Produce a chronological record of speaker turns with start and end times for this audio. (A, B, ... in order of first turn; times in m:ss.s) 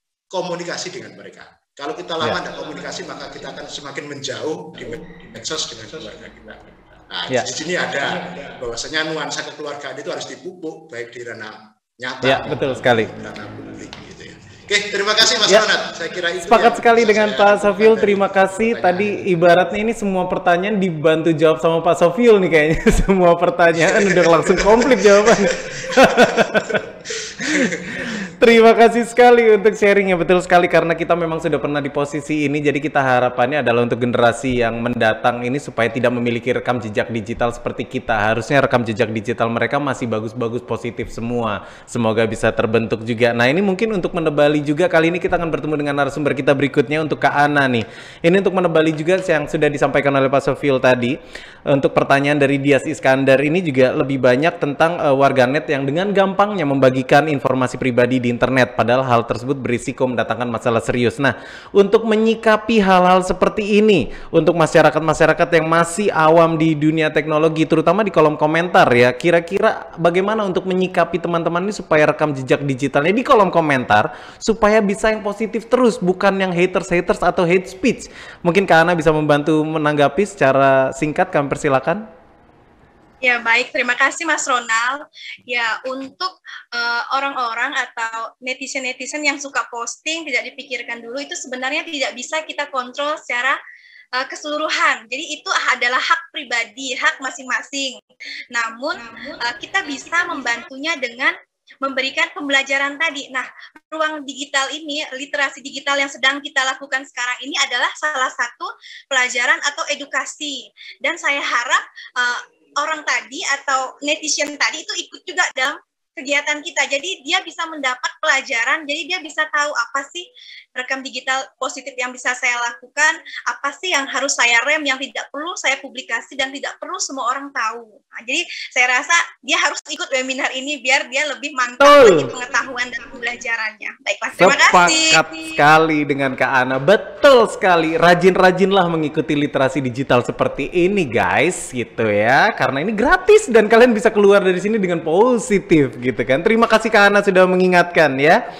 0:00.3-0:19.3 A
0:07.3-0:07.6 B
0:12.2-0:13.1 B
0:16.4-0:26.8 B
0:23.7-0:28.3 A
0:27.4-0:51.2 B
0:51.7-1:22.0 B
1:23.2-1:33.6 C
1:34.2-1:38.0 C
1:38.5-2:00.2 C
2:00.8-2:15.5 C
2:11.8-2:12.3 B
2:14.4-2:28.4 B